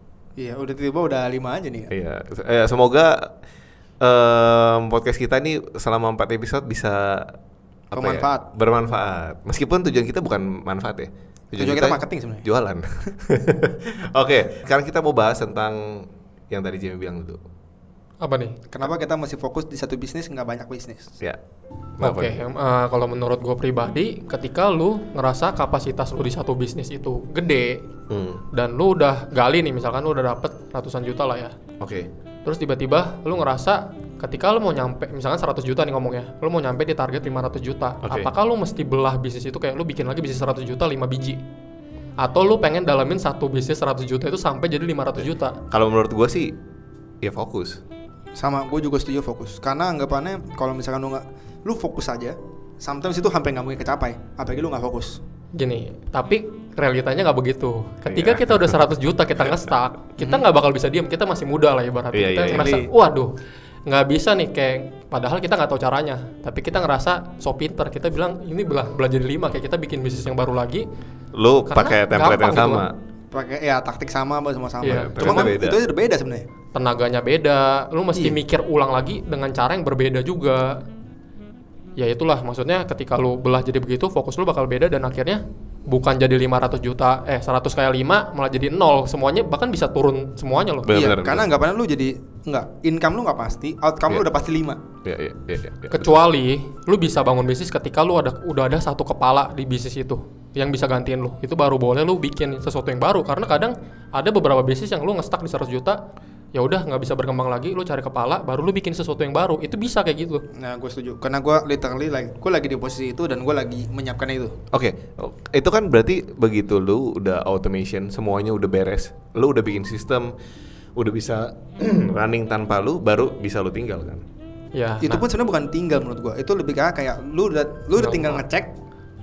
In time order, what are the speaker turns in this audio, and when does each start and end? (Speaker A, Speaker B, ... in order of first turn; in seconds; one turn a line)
Speaker A: 0.4-1.9
Speaker B: 1.9-3.3
Speaker B: 4.0-7.4
Speaker B: 7.9-17.4
Speaker A: 7.9-8.5
Speaker A: 11.6-12.5
Speaker C: 18.2-18.6
Speaker A: 18.7-21.2
Speaker B: 22.0-22.4
Speaker C: 22.0-27.9
Speaker B: 28.1-28.4
Speaker C: 28.5-31.5
Speaker B: 31.8-32.1
Speaker C: 32.5-41.4
Speaker B: 38.0-38.3
Speaker C: 42.2-45.6
Speaker B: 45.2-46.5
Speaker B: 47.2-47.8
Speaker A: 48.4-55.2
Speaker C: 55.5-63.3
Speaker B: 58.0-58.9
Speaker A: 60.2-60.5
Speaker B: 62.1-62.9
Speaker C: 63.9-70.9
Speaker B: 71.3-73.0
Speaker C: 71.7-72.9
Speaker A: 73.3-76.5
Speaker C: 74.8-75.5
Speaker B: 74.9-75.8
Speaker C: 76.8-80.8
Speaker C: 82.0-90.9
Speaker B: 90.8-91.5
Speaker A: 90.9-94.8
Speaker B: 95.0-96.2
Speaker C: 95.9-106.0
Speaker C: 106.5-110.4
Speaker A: 110.5-114.6
Speaker B: 114.7-120.3
Speaker B: 121.0-124.2
Speaker C: 124.7-125.3
Speaker A: 125.0-128.8
Speaker C: 127.9-128.4